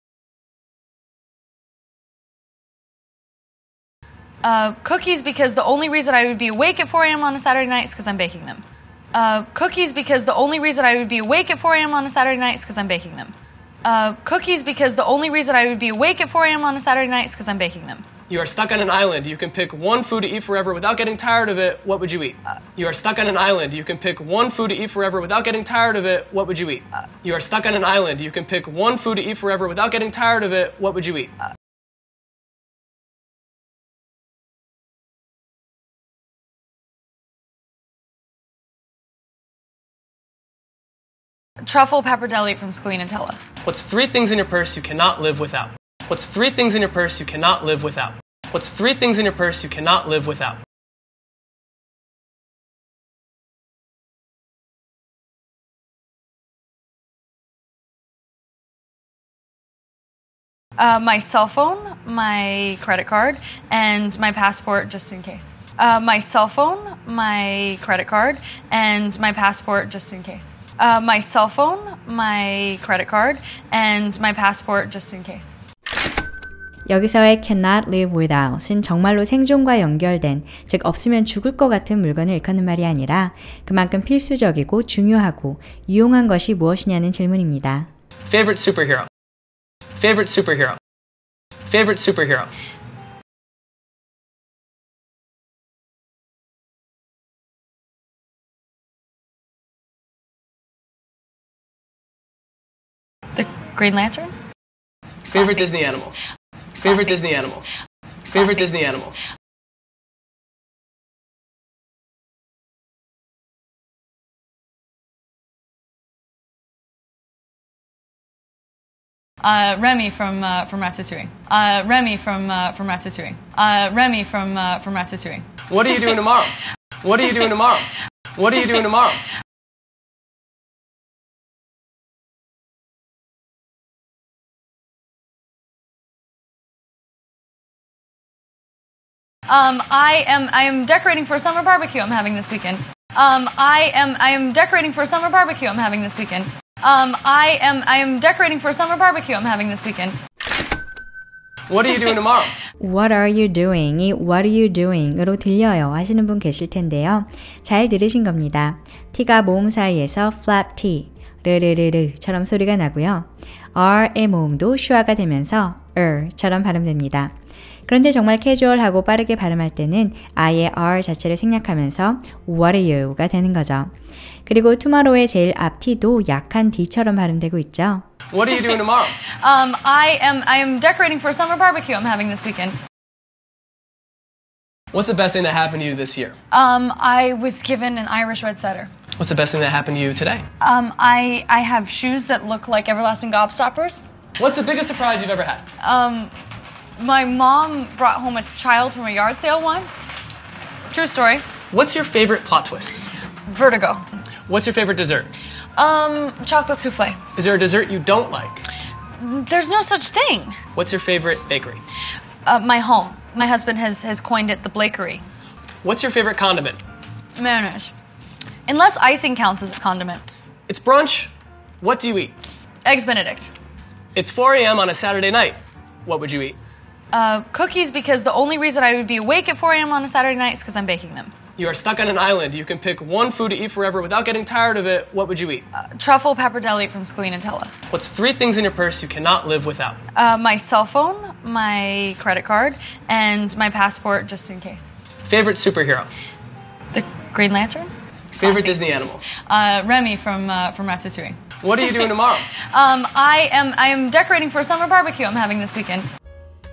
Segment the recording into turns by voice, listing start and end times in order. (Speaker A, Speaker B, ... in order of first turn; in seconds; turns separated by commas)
Speaker A: 4.4-8.6, Speaker A: 9.1-13.3, Speaker A: 13.8-18.1, Speaker B: 18.3-31.3, Speaker A: 41.6-43.4, Speaker B: 43.6-50.6, Speaker A: 60.8-75.5, Speaker C: 76.9-87.9, Speaker B: 88.2-89.1, Speaker B: 90.0-90.8, Speaker B: 91.7-92.5, Speaker A: 103.3-104.3, Speaker B: 105.3-106.2, Speaker B: 106.8-107.7, Speaker B: 108.3-109.2, Speaker A: 119.4-125.5, Speaker B: 125.7-129.2, Speaker A: 139.5-150.2, Speaker B: 151.7-152.5, Speaker C: 152.8-167.3, Speaker C: 167.9-173.9, Speaker C: 174.4-178.1, Speaker B: 178.3-179.2, Speaker A: 179.4-182.8, Speaker B: 184.9-186.3, Speaker A: 186.5-188.9, Speaker B: 189.2-190.4, Speaker A: 190.6-194.0, Speaker B: 194.4-195.7, Speaker A: 195.8-196.3, Speaker A: 197.0-200.1, Speaker A: 200.9-201.4, Speaker B: 201.7-203.0, Speaker A: 203.5-204.1, Speaker B: 204.5-205.3, Speaker A: 205.8-207.2, Speaker B: 207.3-208.7, Speaker A: 209.2-210.6, Speaker B: 210.7-211.8, Speaker A: 212.4-215.2, Speaker B: 215.8-216.8, Speaker A: 217.4-217.9, Speaker A: 218.7-220.2, Speaker B: 220.7-222.3, Speaker A: 222.8-223.5, Speaker B: 224.1-226.6, Speaker A: 227.1-231.3, Speaker B: 231.6-235.6, Speaker A: 235.7-237.7, Speaker B: 237.9-240.0, Speaker A: 240.1-244.9, Speaker B: 245.2-246.1, Speaker A: 246.9-248.8, Speaker B: 248.4-249.2, Speaker A: 249.3-251.4, Speaker B: 251.6-252.5, Speaker A: 252.6-256.1